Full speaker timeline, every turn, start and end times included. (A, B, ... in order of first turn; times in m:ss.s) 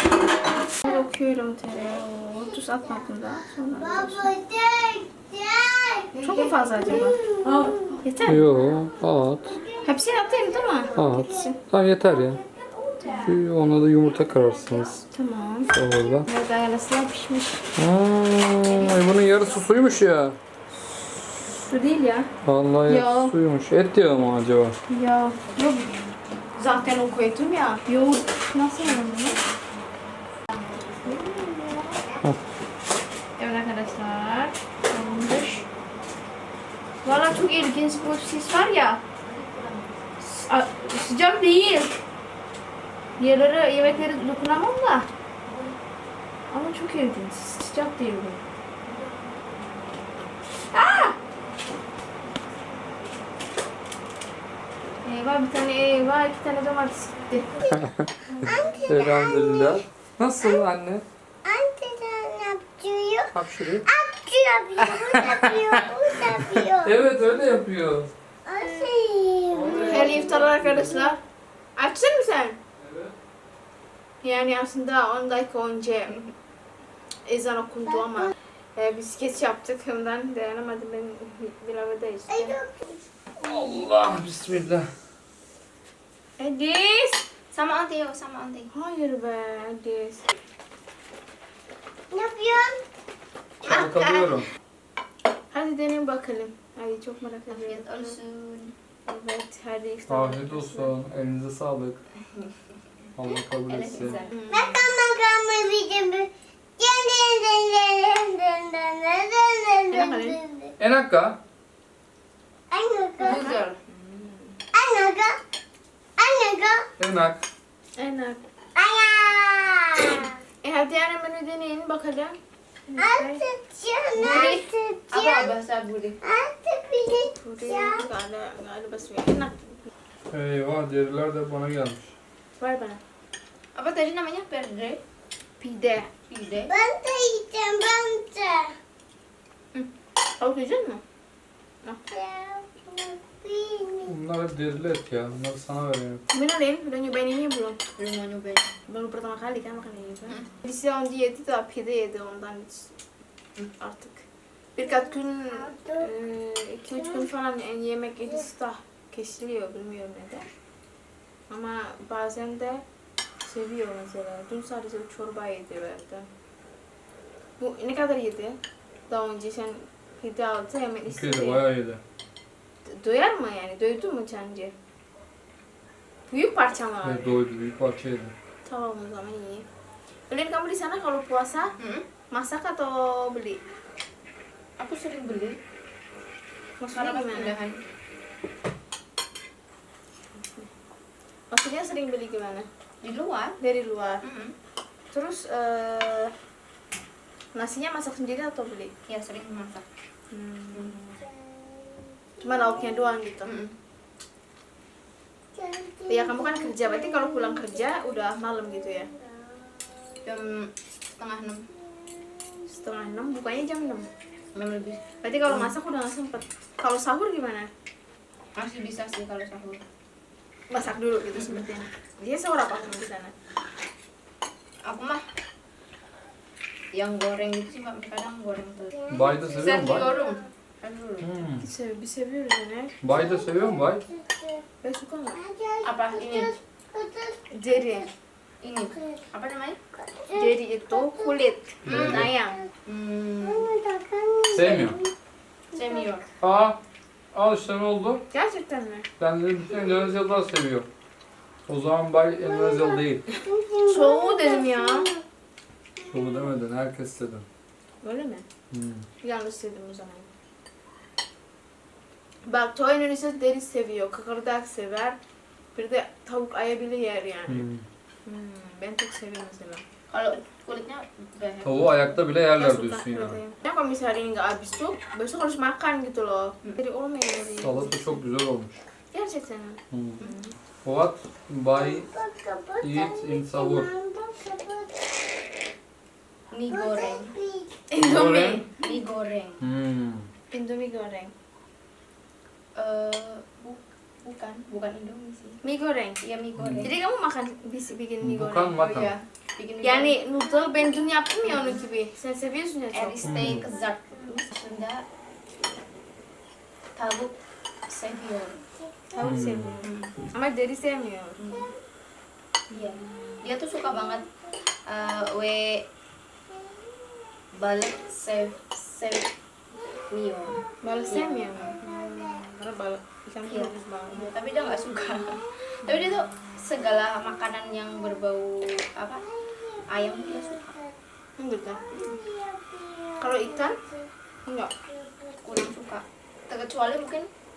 0:00.8-0:04.3 A
0:02.4-0:03.1 B
0:03.6-0:08.9 B
0:06.1-0:07.1 C
0:06.2-0:08.4 A
0:08.2-0:09.6 D
0:09.4-0:13.3 B
0:09.8-0:11.6 A
0:10.9-0:12.4 D
0:13.0-0:13.3 C
0:13.2-0:15.0 D
0:14.1-0:14.9 C
0:15.1-0:15.7 A
0:15.7-0:16.3 D
0:16.2-0:17.6 A
0:17.8-0:20.4 D
0:20.9-0:22.3 A
0:22.4-0:24.8 D
0:22.8-0:23.3 A
0:24.9-0:26.0 A
0:26.6-0:29.4 A
0:30.5-0:31.3 C
0:31.0-0:32.0 B
0:33.4-0:35.6 A
0:37.0-0:39.0 A
0:39.2-0:40.2 C
0:40.2-0:42.0 A
0:43.2-0:45.1 A
0:45.4-0:45.8 C
0:46.5-0:48.4 A
0:48.8-0:50.0 C
0:50.7-0:51.2 A
0:55.0-0:57.6 A
0:57.8-0:58.1 D
0:58.3-0:58.8 A
0:58.4-0:59.8 B
0:58.9-1:01.0 D
1:01.4-1:03.3 B
1:03.3-1:03.9 D
1:03.8-1:07.0 B
1:04.8-1:08.1 D
1:08.4-1:10.1 B
1:09.5-1:11.1 D
1:09.8-1:11.2 A
1:11.8-1:12.6 A
1:12.8-1:13.1 D
1:14.2-1:16.2 A
1:17.3-1:22.6 A
1:17.9-1:18.3 B
1:22.3-1:23.0 B
1:23.4-1:24.9 D
1:26.4-1:27.2 A
1:27.5-1:28.7 C
1:28.7-1:30.2 A
1:32.1-1:32.8 B
1:33.6-1:34.5 D
1:33.6-1:34.3 C
1:35.5-1:38.2 A
1:37.5-1:38.7 C
1:39.0-1:40.9 A
1:40.1-1:42.0 D
1:43.2-1:44.2 D
1:43.7-1:44.4 C
1:44.3-1:44.8 A
1:44.5-1:50.7 B
1:49.9-1:50.4 A
1:50.8-1:51.4 D
1:52.7-1:53.5 B
1:53.2-1:53.8 C
1:53.2-1:54.6 A
1:54.7-1:55.4 B
1:56.2-1:56.9 B
1:57.0-1:57.4 D
1:58.0-1:58.4 A
1:58.7-2:00.4 B
2:00.6-2:02.4 A
2:02.9-2:03.4 A
2:03.0-2:05.5 B
2:04.2-2:06.2 C
2:06.2-2:08.0 B
2:07.3-2:09.8 A
2:10.3-2:12.1 D
2:12.6-2:13.0 A
2:13.7-2:15.0 C
2:15.6-2:16.1 A
2:16.3-2:16.7 C
2:16.7-2:18.7 B
2:19.7-2:21.0 A
2:22.1-2:24.1 B
2:24.1-2:26.2 D
2:26.3-2:27.8 A
2:28.0-2:28.7 C
2:28.9-2:32.9 A
2:33.8-2:34.2 A
2:34.8-2:40.4 A
2:34.8-2:36.1 B
2:37.0-2:37.3 B
2:41.5-2:42.8 A
2:43.4-2:46.2 A
2:47.6-2:48.6 A
2:49.1-2:51.6 A
2:51.1-2:52.0 D
2:52.9-2:54.7 A
2:56.3-2:57.3 A
2:57.0-2:58.3 D
2:58.6-2:59.6 A
3:00.3-3:01.7 A
3:01.8-3:02.1 C
3:02.3-3:03.6 A
3:04.8-3:05.6 C
3:06.8-3:07.6 A
3:06.9-3:07.8 C
3:11.5-3:12.7 A
3:13.0-3:13.6 C
3:13.6-3:14.2 A
3:14.2-3:14.5 C
3:15.1-3:16.3 A
3:17.5-3:18.9 A
3:19.1-3:19.8 C
3:20.3-3:21.2 A
3:21.2-3:22.9 B
3:22.4-3:23.6 A
3:23.4-3:23.7 C
3:25.5-3:29.8 B
3:26.1-3:29.1 A
3:30.2-3:31.7 C
3:31.8-3:32.7 B
3:32.7-3:34.1 A
3:34.5-3:35.7 C
3:35.2-3:37.7 A
3:38.5-3:39.8 C
3:40.7-3:43.3 A
3:41.3-3:41.6 C
3:44.8-3:45.2 C
3:46.9-3:49.0 C
3:49.0-3:50.4 B
3:49.1-3:50.1 D
3:49.6-3:51.3 C
3:51.2-3:51.6 D
3:51.6-3:53.0 A
3:53.0-3:54.0 D
3:53.1-3:54.6 B
3:54.8-3:55.4 A
3:55.3-3:58.1 B
3:55.8-3:56.5 C
3:57.5-3:58.1 A
3:58.6-3:59.8 C
3:58.9-3:59.2 B
4:00.0-4:01.4 B
4:00.3-4:02.6 A
4:01.8-4:02.3 D
4:01.8-4:02.3 C
4:02.8-4:03.7 C
4:03.4-4:05.1 B
4:04.5-4:05.0 D
4:05.7-4:06.2 B
4:05.7-4:06.2 C
4:06.4-4:06.8 D
4:07.3-4:08.2 D
4:08.3-4:09.1 A
4:09.2-4:10.9 D
4:11.7-4:13.2 D
4:12.4-4:15.2 B
4:13.8-4:15.1 A
4:16.0-4:16.5 B
4:16.1-4:17.4 D
4:18.0-4:18.4 A
4:18.7-4:19.1 D
4:19.2-4:20.3 A
4:22.4-4:25.2 A
4:25.7-4:27.6 A
4:27.5-4:27.8 D
4:28.2-4:29.8 A
4:30.1-4:32.2 C
4:31.6-4:33.4 D
4:32.5-4:38.2 A
4:37.6-4:38.8 D
4:39.1-4:40.5 A
4:39.9-4:40.2 D
4:40.8-4:42.1 D
4:41.7-4:45.1 B
4:42.8-4:43.9 D
4:46.5-4:47.3 C
4:46.7-4:47.8 B
4:47.9-4:48.7 A
4:48.0-4:48.6 D
4:48.0-4:49.6 C
4:49.6-4:50.3 D
4:50.5-4:51.3 A
4:52.8-4:55.6 C
4:55.6-4:56.2 A
4:56.2-4:56.9 C
4:56.6-4:56.9 D
4:56.8-4:58.8 A
4:58.2-4:59.1 D
4:58.8-5:00.2 C
4:59.8-5:03.3 A
5:01.5-5:01.8 C
5:02.9-5:05.0 C
5:03.2-5:03.6 D
5:06.9-5:07.4 C
5:07.9-5:08.6 C
5:09.1-5:11.4 A
5:09.2-5:09.7 D
5:09.8-5:10.1 C
5:11.4-5:11.7 C
5:11.4-5:11.8 B
5:12.7-5:13.4 A
5:12.7-5:14.2 C
5:13.8-5:14.2 B
5:14.9-5:15.9 C
5:16.5-5:16.8 B
5:17.6-5:19.3 C
5:19.7-5:22.4 B
5:20.1-5:21.8 C
5:20.8-5:24.5 A
5:23.5-5:29.2 C
5:25.0-5:25.4 B
5:29.5-5:31.0 B
5:29.9-5:30.7 C
5:31.4-5:31.9 A
5:31.9-5:34.1 B
5:33.2-5:33.8 A
5:34.5-5:34.7 A
5:34.8-5:35.7 B
5:35.4-5:37.3 C